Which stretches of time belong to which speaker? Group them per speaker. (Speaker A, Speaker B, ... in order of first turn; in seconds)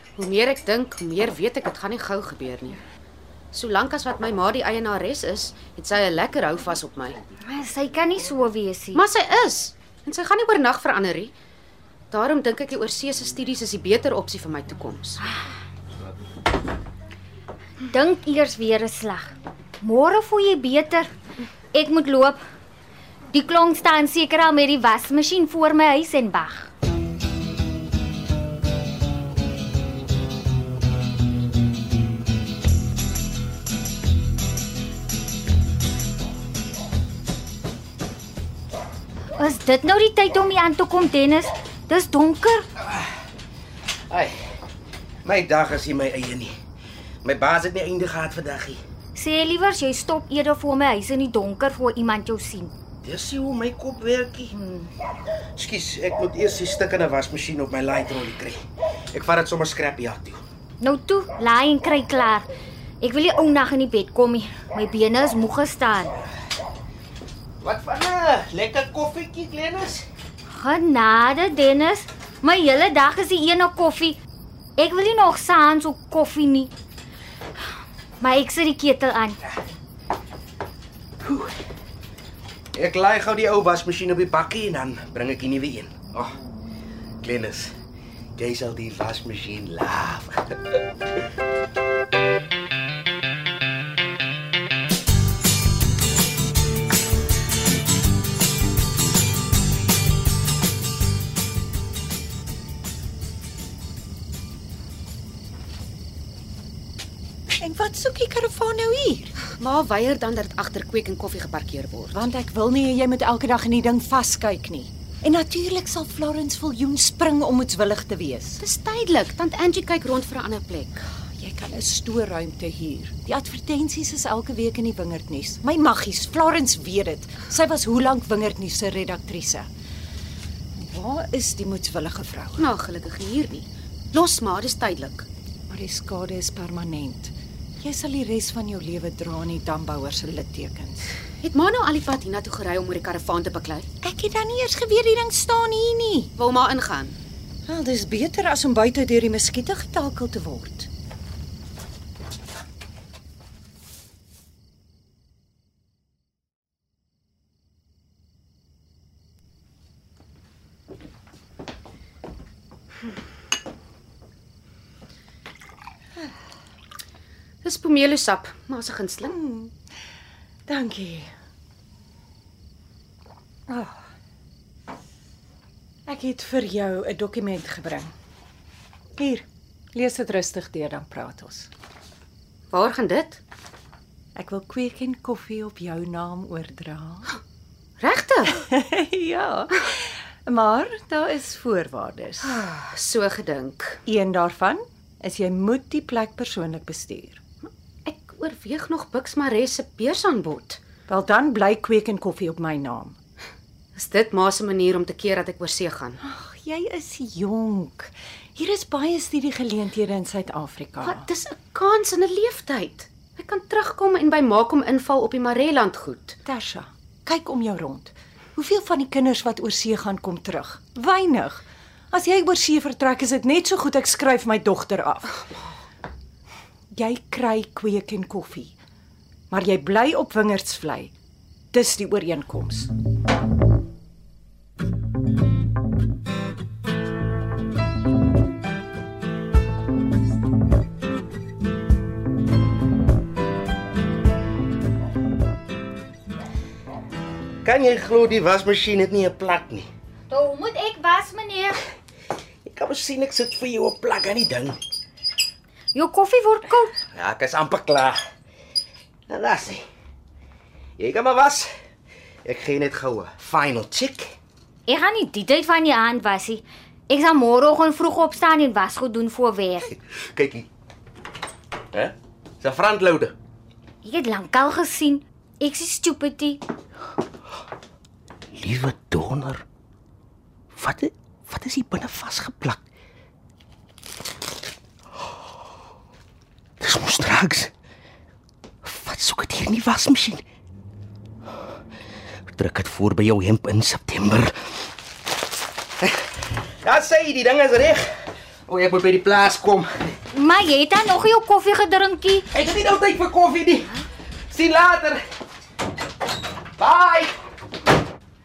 Speaker A: 0.2-2.8, 3.5-7.2, 8.9-11.3, 12.1-15.2, 109.5-112.3, 118.6-121.0, 132.6-135.2, 141.4-143.9, 146.3-147.1, 167.6-169.3, 182.7-183.4, 188.0-188.6, 192.4-194.0, 198.1-200.8, 203.9-206.2, 211.0-216.3
Speaker B: 7.4-9.0, 17.9-21.1, 21.7-22.4, 23.3-26.7, 39.4-42.7, 49.1-52.7, 54.5-54.9, 60.8-62.5, 63.0-66.1, 70.5-74.2, 74.8-76.7, 78.2-79.4, 250.3-251.8, 255.9-256.9, 264.9-269.9, 274.0-276.6, 300.3-302.5
Speaker C: 45.2-46.5, 47.2-48.8, 53.0-54.5, 55.5-58.6, 59.1-60.4, 67.6-70.0, 81.2-81.5, 82.8-86.3, 87.2-87.7, 88.4-90.4, 247.6-249.9, 252.7-254.8, 257.1-258.2, 259.3-259.8, 261.0-261.7, 262.4-264.4, 270.3-270.7, 271.9-273.4, 278.6-279.6, 280.8-282.8, 286.8-287.7, 288.8-290.4, 292.5-294.5, 296.8-298.1, 298.7-299.9, 302.5-305.2, 306.8-307.3
Speaker D: 107.6-109.3, 112.2-118.5, 121.4-129.7, 130.8-132.6, 135.7-141.1, 144.0-146.3, 147.7-150.9, 170.7-171.3, 176.1-178.1, 179.2-181.7, 184.3-187.2, 189.0-189.7, 190.5-192.4, 194.1-197.4, 201.1-203.2, 206.3-211.2, 216.5-225.3, 226.9-228.7, 229.5-231.1, 231.7-232.9